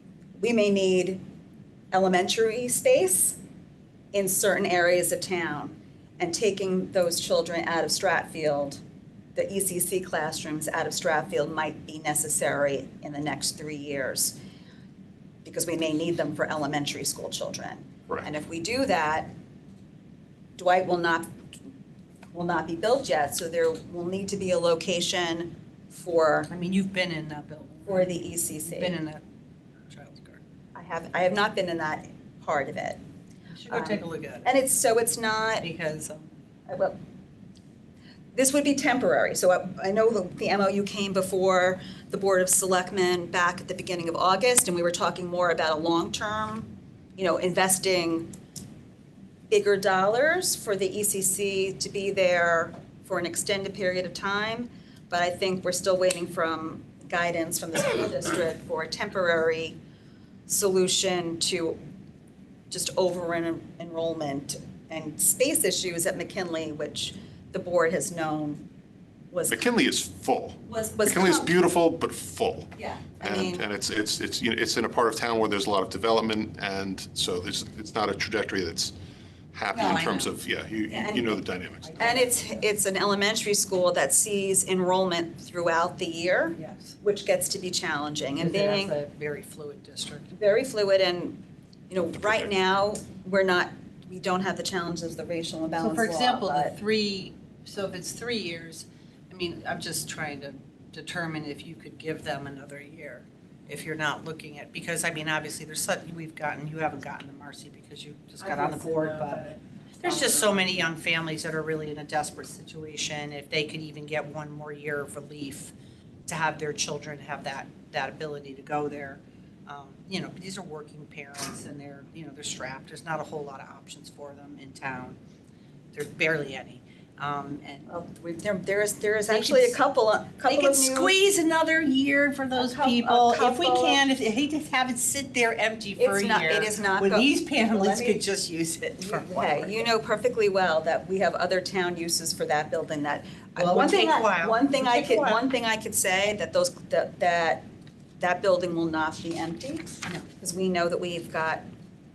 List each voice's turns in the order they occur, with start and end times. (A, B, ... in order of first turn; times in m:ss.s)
0:00.4-0:01.2 A
0:01.9-0:03.4 A
0:04.1-0:08.8 A
0:09.3-0:14.4 A
0:15.4-0:19.3 A
0:20.6-0:21.3 A
0:22.3-0:26.5 A
0:26.5-0:28.1 B
0:27.9-0:29.0 A
0:28.6-0:29.2 B
0:29.9-0:30.4 B
0:30.7-0:33.0 A
0:33.5-0:34.4 B
0:33.7-0:35.6 A
0:35.6-0:36.2 B
0:36.7-0:37.0 A
0:38.3-0:48.3 A
0:49.5-0:59.8 A
1:00.5-1:01.8 A
1:02.7-1:08.6 A
1:09.3-1:09.6 A
1:09.5-1:18.9 C
1:10.7-1:11.5 A
1:12.8-1:13.6 A
1:19.5-1:22.0 C
1:19.7-1:20.3 A
1:20.9-1:21.2 A
1:21.9-1:22.4 B
1:22.0-1:28.9 A
1:26.6-1:26.9 B
1:28.4-1:30.3 B
1:30.3-1:36.8 A
1:35.8-1:55.7 B
1:56.3-2:05.2 B
2:05.9-2:07.9 B
2:07.9-2:11.1 A
2:09.3-2:09.8 B
2:10.5-2:19.9 B
2:12.5-2:14.0 A
2:16.0-2:18.2 A
2:19.0-2:27.6 A
2:23.6-2:25.4 B
2:28.2-2:31.6 A